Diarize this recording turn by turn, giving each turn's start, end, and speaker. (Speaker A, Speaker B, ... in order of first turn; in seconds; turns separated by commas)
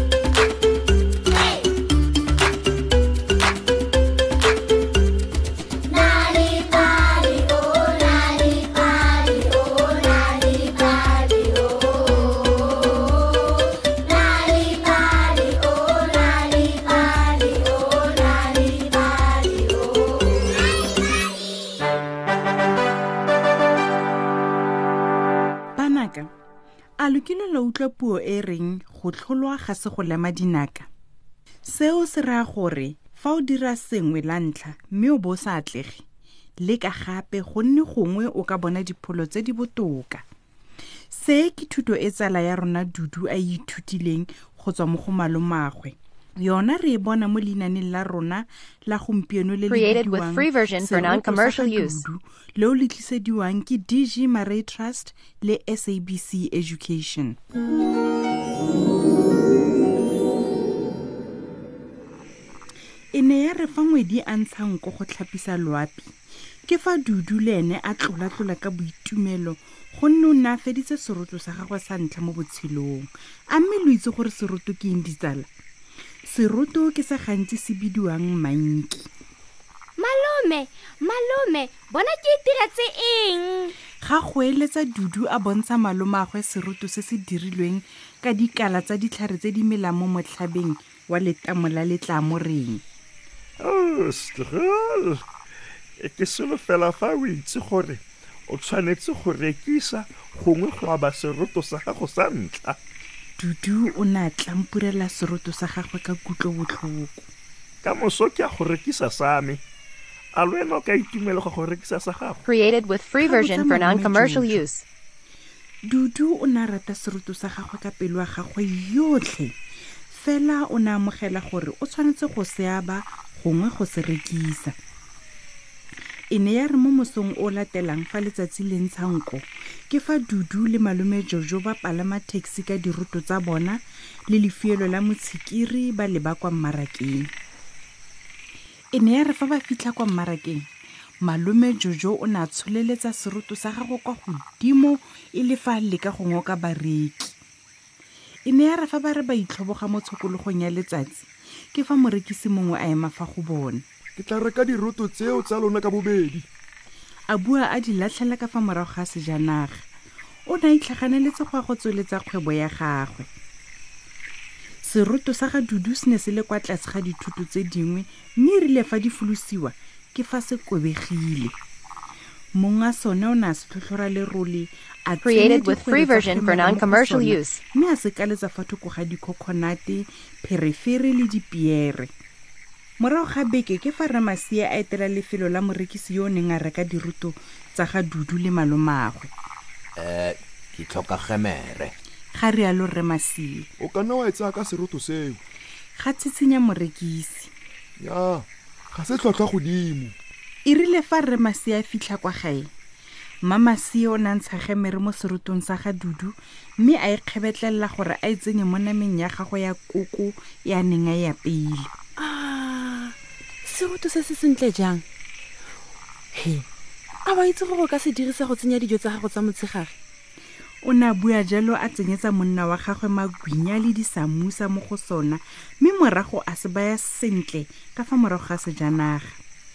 Speaker A: 5.9-11.8, Speaker A: 14.1-19.6, Speaker B: 25.8-26.3, Speaker B: 27.0-30.9, Speaker B: 31.6-36.0, Speaker B: 36.6-40.2, Speaker B: 41.1-57.4, Speaker C: 49.7-52.0, Speaker B: 63.1-66.1, Speaker B: 66.7-75.5, Speaker B: 76.3-79.1, Speaker A: 80.0-83.7, Speaker B: 84.0-92.8, Speaker D: 93.6-95.2, Speaker D: 96.0-102.8, Speaker B: 103.4-107.3, Speaker D: 107.8-109.6, Speaker D: 110.3-112.4, Speaker C: 112.5-114.8, Speaker B: 113.2-114.6, Speaker B: 115.9-119.5, Speaker B: 120.1-124.7, Speaker B: 126.3-137.3, Speaker B: 138.9-140.7, Speaker B: 141.2-147.4, Speaker B: 148.5-153.8, Speaker E: 154.2-156.5, Speaker B: 157.3-159.8, Speaker B: 160.5-163.3, Speaker B: 164.8-171.6, Speaker B: 172.6-182.1, Speaker C: 175.2-177.6, Speaker B: 183.0-189.3, Speaker F: 190.0-191.9, Speaker B: 192.3-193.7, Speaker E: 193.8-195.4, Speaker B: 196.0-197.5, Speaker E: 198.0-200.2, Speaker B: 200.7-202.7, Speaker B: 203.5-211.9, Speaker G: 212.2-213.1, Speaker G: 213.7-215.0, Speaker G: 216.3-216.7, Speaker G: 217.3-219.9, Speaker B: 220.8-229.4